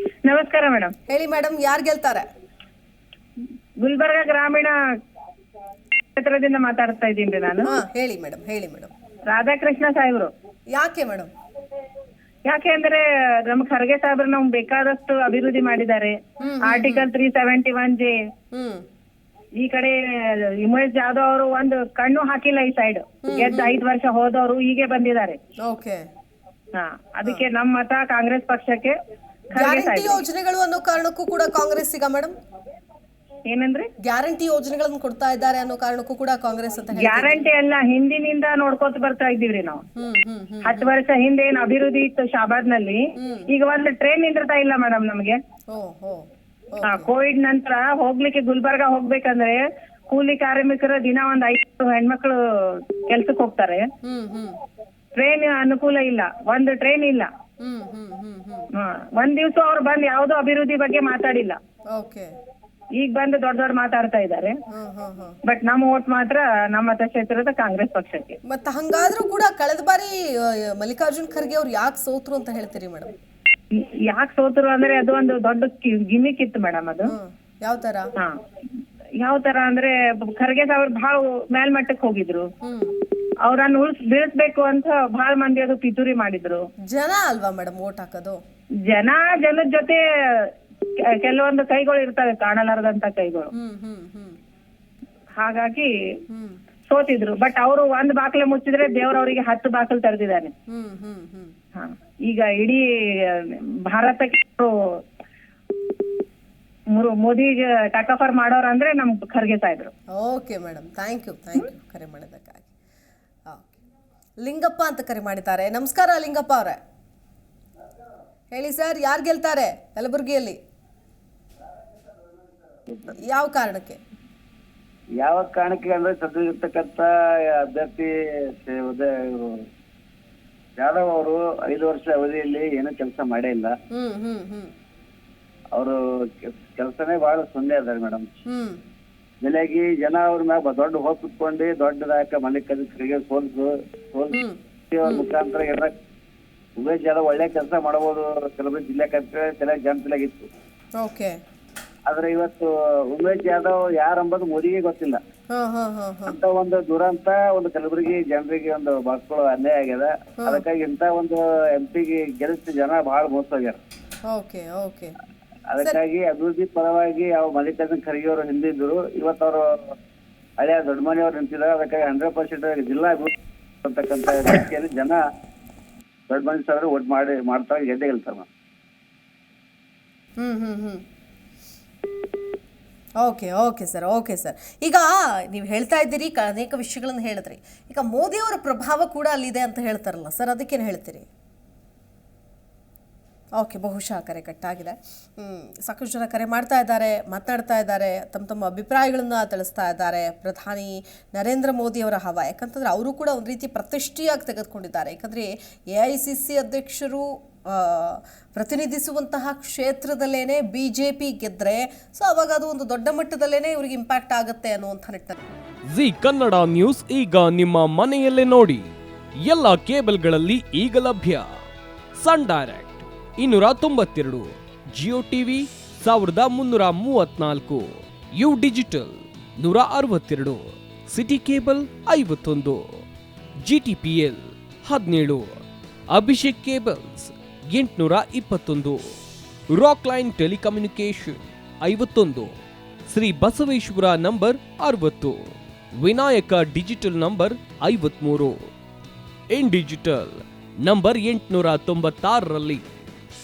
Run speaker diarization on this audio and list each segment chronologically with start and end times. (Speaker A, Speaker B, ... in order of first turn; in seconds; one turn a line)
Speaker A: 0.3-0.9
Speaker B: 1.1-2.2
Speaker A: 3.8-4.7
Speaker A: 6.2-7.7
Speaker B: 7.6-8.9
Speaker A: 9.3-10.3
Speaker B: 10.8-11.3
Speaker A: 12.5-18.2
Speaker B: 16.4-17.1
Speaker B: 18.5-18.8
Speaker A: 19.6-25.4
Speaker B: 23.2-23.8
Speaker B: 25.7-26.0
Speaker A: 26.8-29.0
Speaker A: 29.6-30.2
Speaker B: 29.6-32.3
Speaker A: 33.5-33.9
Speaker B: 34.0-37.5
Speaker A: 36.9-39.8
Speaker B: 40.0-40.9
Speaker A: 40.6-45.4
Speaker B: 43.2-43.5
Speaker B: 45.7-47.1
Speaker A: 46.9-53.9
Speaker B: 54.0-54.6
Speaker A: 55.2-57.3
Speaker B: 57.6-58.7
Speaker A: 58.8-61.6
Speaker B: 62.0-62.3
Speaker A: 63.0-64.6
Speaker B: 64.7-65.4
Speaker A: 65.5-68.4
Speaker B: 68.5-73.1
Speaker A: 73.7-77.1
Speaker B: 77.1-78.1
Speaker A: 79.2-82.5
Speaker B: 82.6-82.9
Speaker A: 83.5-86.6
Speaker B: 86.9-88.4
Speaker A: 88.9-90.5
Speaker A: 91.2-93.5
Speaker B: 93.5-94.4
Speaker A: 95.4-95.9
Speaker B: 96.3-96.6
Speaker A: 96.9-100.5
Speaker B: 100.7-101.5
Speaker A: 101.8-104.7
Speaker A: 107.0-109.9
Speaker B: 110.1-112.7
Speaker B: 113.5-113.8
Speaker B: 114.4-116.8
Speaker B: 118.5-120.6
Speaker B: 123.1-124.0
Speaker C: 125.2-129.7
Speaker C: 130.8-133.7
Speaker B: 133.9-134.7
Speaker C: 135.7-138.3
Speaker B: 138.5-138.8
Speaker C: 139.4-144.4
Speaker B: 144.3-145.3
Speaker C: 144.9-145.9
Speaker C: 146.8-150.5
Speaker B: 151.0-151.4
Speaker C: 152.1-155.2
Speaker B: 155.5-156.4
Speaker C: 156.3-163.8
Speaker B: 164.3-165.1
Speaker C: 165.7-169.6
Speaker C: 170.6-173.3
Speaker C: 173.8-175.2
Speaker C: 176.3-178.5
Speaker B: 180.4-181.0
Speaker B: 183.2-191.3
Speaker B: 193.6-215.4
Speaker D: 215.9-221.5
Speaker D: 222.2-233.0
Speaker D: 233.6-239.1
Speaker D: 239.7-242.5
Speaker D: 243.1-248.7
Speaker D: 249.5-252.8